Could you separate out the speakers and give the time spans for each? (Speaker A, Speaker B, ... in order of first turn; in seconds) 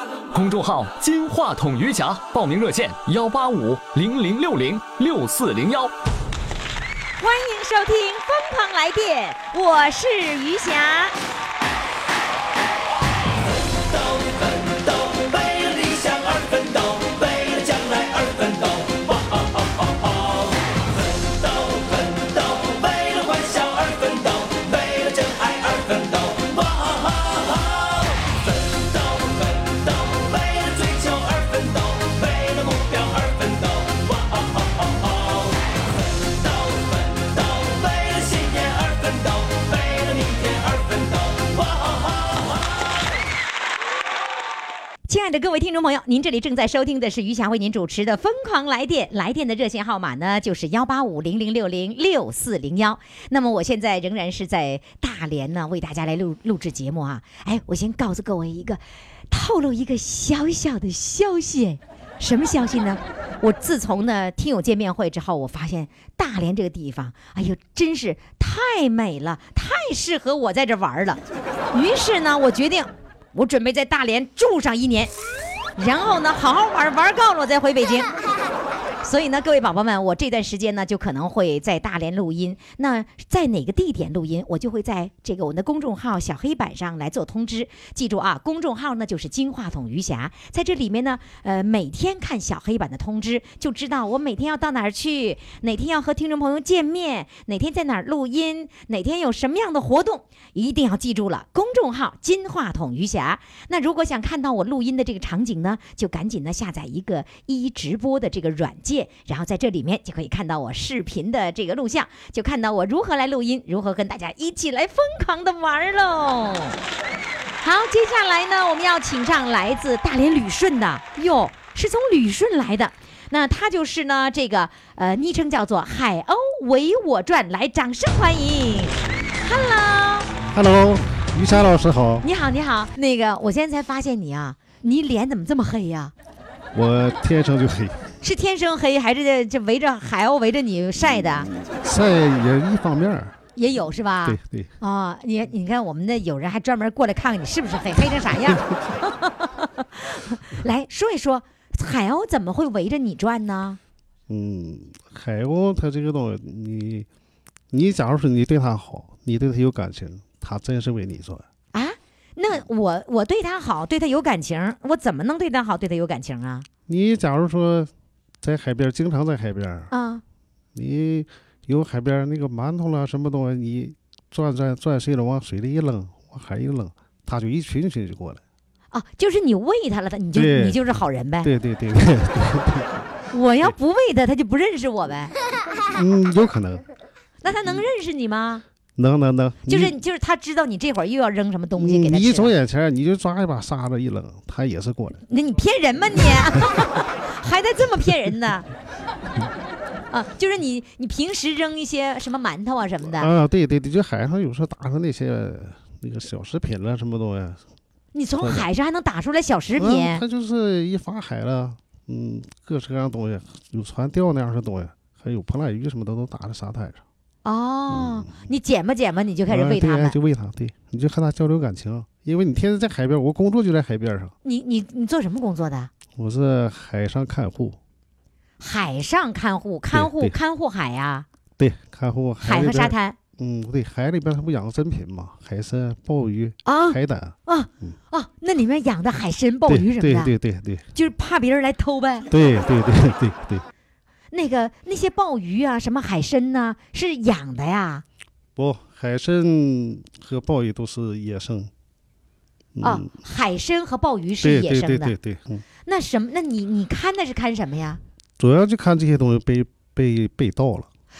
Speaker A: 0.3-5.9
Speaker B: 7.2-11.1, 45.1-71.2, 71.7-75.1, 75.8-78.1, 79.0-116.8, 117.6-130.3, 132.2-136.1, 138.2-141.5, 143.6-153.8, 161.7-166.7, 169.9-170.2, 178.9-181.5, 183.3-185.3, 187.4-188.6, 189.7-192.5, 195.3-198.7, 200.1-203.3, 208.1-210.2, 217.4-220.2, 224.4-225.9, 228.6-231.2, 232.4-233.2, 236.6-240.3, 240.9-242.3, 244.3-248.0, 252.8-255.1, 255.8-258.0
Speaker C: 14.1-19.4, 20.1-20.5, 21.1-27.6, 28.6-35.5, 36.2-42.1
Speaker D: 130.5-132.2, 136.7-138.0, 141.0-143.4, 144.2-144.7, 154.3-157.1, 157.7-161.4, 166.9-167.9, 168.4-169.9, 170.7-178.4, 180.3-180.8, 181.4-183.0, 185.9-186.8, 188.9-189.9, 191.8-195.2, 196.2-196.7, 203.0-207.6, 208.4-208.7, 209.7-217.0, 217.9-218.3, 219.5-224.3, 226.1-227.8, 229.9-230.3, 231.6-237.9, 239.7-240.8, 242.3-243.6, 248.6-251.7, 252.7-253.1, 254.4-255.6, 258.4-260.9